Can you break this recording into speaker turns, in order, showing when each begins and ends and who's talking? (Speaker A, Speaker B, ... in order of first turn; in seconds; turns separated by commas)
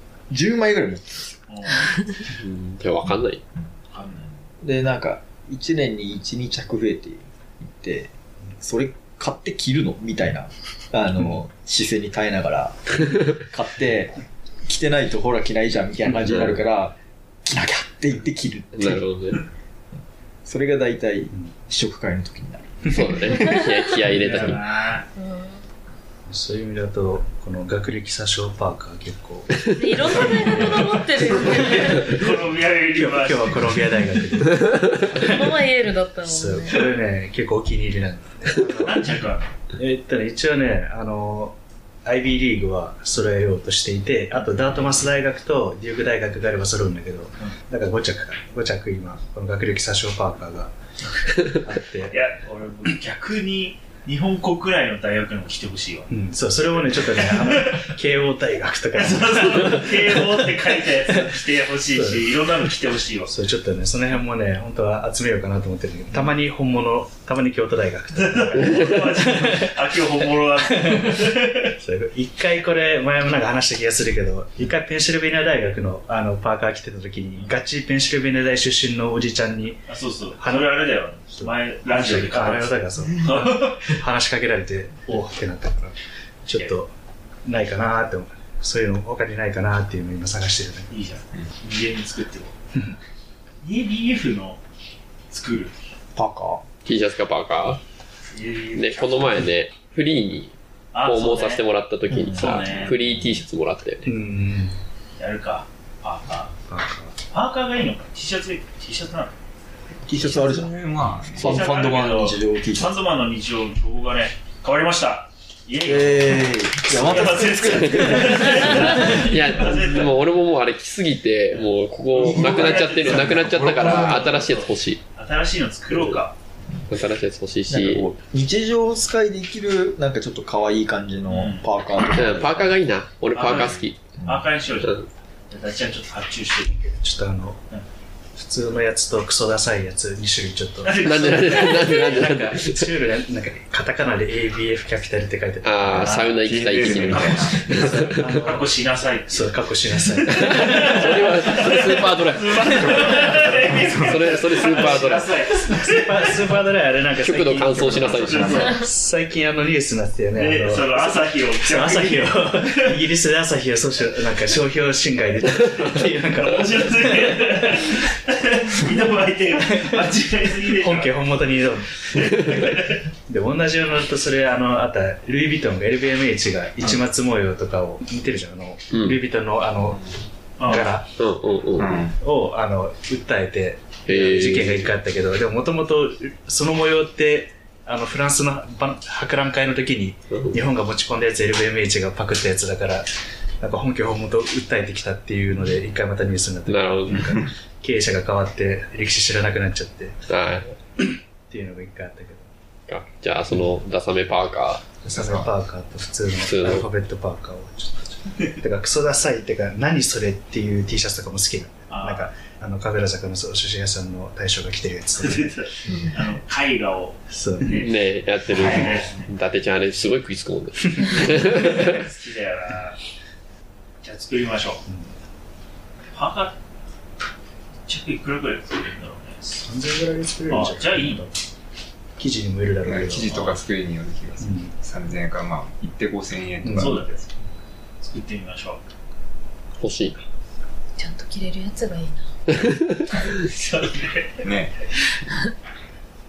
Speaker A: 0.3-1.4, Speaker B: 1.5-1.9, Speaker C: 2.3-3.4, Speaker B: 3.9-4.3, Speaker A: 4.6-19.0, Speaker C: 16.3-16.6, Speaker C: 18.7-19.4, Speaker A: 20.4-23.7, Speaker C: 22.9-24.6, Speaker B: 24.0-25.1, Speaker D: 25.1-25.6, Speaker E: 26.3-30.8, Speaker D: 29.8-32.1, Speaker B: 30.1-33.9, Speaker E: 32.9-35.6, Speaker D: 35.1-36.7, Speaker E: 36.2-39.0, Speaker B: 38.8-39.5, Speaker E: 39.8-50.7, Speaker B: 44.4-45.0, Speaker E: 51.4-52.1, Speaker B: 52.1-57.9, Speaker E: 56.1-60.5, Speaker B: 58.9-63.3, Speaker E: 62.0-62.2, Speaker E: 63.2-69.7, Speaker B: 68.1-71.6, Speaker E: 70.8-71.2, Speaker E: 71.8-79.8, Speaker B: 77.3-77.6, Speaker B: 79.9-83.9, Speaker E: 80.4-85.9, Speaker E: 86.5-86.9, Speaker B: 86.5-86.7, Speaker E: 87.4-90.9, Speaker B: 90.9-92.5, Speaker B: 93.6-94.6, Speaker B: 95.3-95.7, Speaker A: 96.1-96.6, Speaker C: 96.8-97.8, Speaker B: 98.3-99.5, Speaker C: 98.7-104.0, Speaker B: 100.9-101.6, Speaker A: 102.1-102.6, Speaker B: 102.3-103.2, Speaker E: 104.0-104.8, Speaker B: 105.2-106.5, Speaker E: 106.7-107.1, Speaker B: 107.3-109.4, Speaker A: 110.0-110.7, Speaker F: 110.4-111.6, Speaker A: 111.3-113.0, Speaker B: 111.4-120.2, Speaker C: 111.4-111.7, Speaker A: 115.8-118.9, Speaker C: 117.4-125.0, Speaker A: 122.1-123.1, Speaker B: 122.1-126.3, Speaker F: 123.7-124.2, Speaker C: 126.9-128.1, Speaker A: 127.7-132.8, Speaker B: 131.3-131.7, Speaker C: 132.1-134.0, Speaker B: 133.3-136.8, Speaker A: 134.2-134.4, Speaker C: 134.8-135.0, Speaker E: 136.7-137.6, Speaker E: 138.3-146.1, Speaker B: 140.8-142.0, Speaker C: 141.0-142.8, Speaker C: 145.6-148.2, Speaker B: 145.8-149.6, Speaker F: 146.3-148.0, Speaker E: 147.7-148.7, Speaker E: 149.3-151.2, Speaker C: 150.3-153.4, Speaker B: 150.4-156.2, Speaker F: 152.6-154.7, Speaker C: 154.0-155.3, Speaker E: 155.7-167.4, Speaker C: 157.2-158.7, Speaker F: 157.8-158.7, Speaker B: 158.2-158.7, Speaker B: 160.3-162.7, Speaker B: 166.3-171.2, Speaker E: 169.7-170.0, Speaker E: 170.6-172.4, Speaker B: 172.1-173.0, Speaker E: 173.3-180.1, Speaker C: 178.9-179.2, Speaker B: 180.6-180.9, Speaker E: 180.6-181.1, Speaker C: 181.2-182.0, Speaker F: 181.8-182.2, Speaker E: 182.2-193.1, Speaker C: 184.1-184.9, Speaker C: 190.3-190.6, Speaker E: 193.6-200.2, Speaker C: 196.7-197.3, Speaker C: 200.3-200.7, Speaker E: 201.0-202.5, Speaker C: 202.9-205.0, Speaker E: 205.0-216.1, Speaker F: 205.1-205.5, Speaker C: 206.4-206.9, Speaker B: 211.9-212.3, Speaker B: 215.2-217.9, Speaker E: 217.3-217.7, Speaker C: 217.7-221.9, Speaker B: 218.4-219.3, Speaker F: 218.6-219.0, Speaker B: 221.3-223.0, Speaker B: 224.0-224.8, Speaker E: 224.8-225.1, Speaker B: 226.1-226.6, Speaker B: 227.9-229.6, Speaker E: 229.6-231.4, Speaker B: 230.5-231.2, Speaker E: 232.2-233.3, Speaker F: 232.8-237.1, Speaker B: 233.2-233.6, Speaker E: 234.4-234.7, Speaker E: 236.6-237.1, Speaker B: 236.7-237.2, Speaker B: 238.0-238.8, Speaker C: 239.8-240.2, Speaker D: 241.0-242.2, Speaker C: 242.5-243.4, Speaker B: 243.2-244.5, Speaker F: 244.4-245.3